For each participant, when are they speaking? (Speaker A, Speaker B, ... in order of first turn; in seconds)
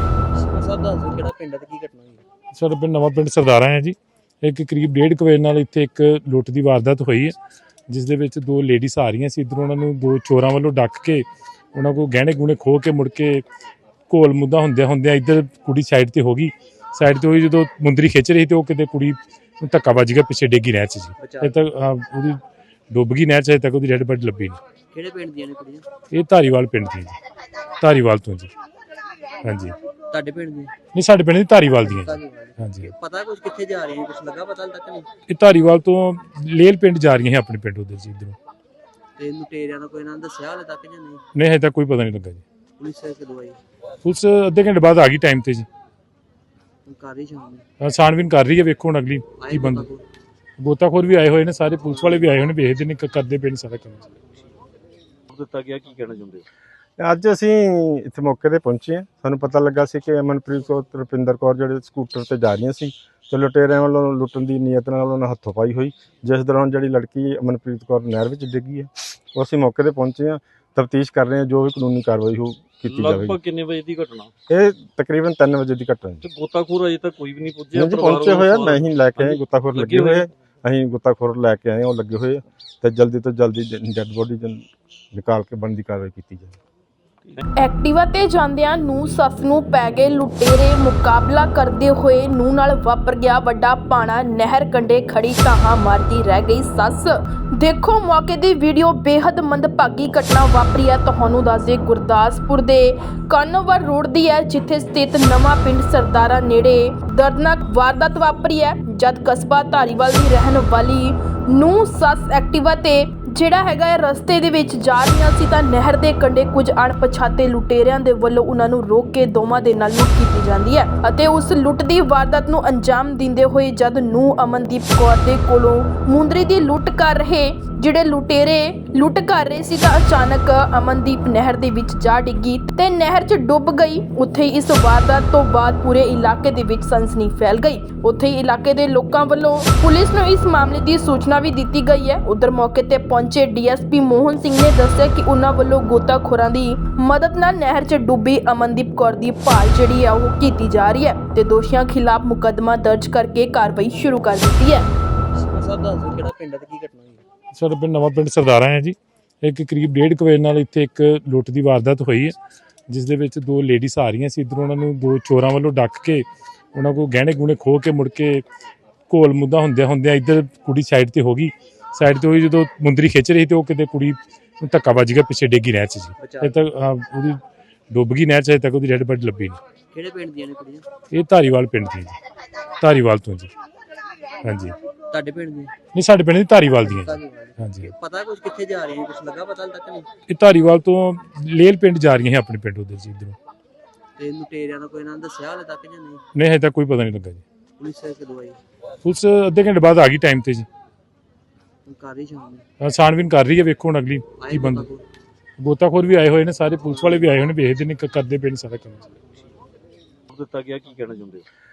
Speaker A: 0.3-2.2, 21.2-21.6, 24.9-25.8, 30.1-30.7, 31.8-35.1, 39.2-41.2, 42.8-43.6, 46.9-47.6, 49.4-50.0, 155.3-157.2, 176.2-176.6, 179.9-180.8, 185.1-185.7, 186.8-190.1, 194.2-196.2, 197.8-198.6, 201.8-202.6, 204.4-205.0
Speaker B: 2.5-7.3, 7.9-13.4, 14.1-22.4, 22.9-24.6, 26.1-27.2, 27.8-28.5, 29.4-29.8, 30.9-32.9, 35.3-38.4, 41.3-42.4, 44.0-45.7, 47.8-49.9, 50.6-54.2, 157.5-162.3, 162.9-168.4, 169.1-177.4, 177.9-179.6, 181.1-182.2, 182.8-183.5, 184.4-184.8, 185.9-187.9, 190.3-193.4, 196.3-197.4, 199.0-200.7, 202.8-204.9, 205.6-209.2
Speaker C: 55.3-56.4, 72.9-74.3, 76.2-80.3, 207.0-207.3, 210.3-211.4
Speaker D: 57.0-73.4, 74.5-76.2, 77.7-86.6
Speaker E: 87.6-154.9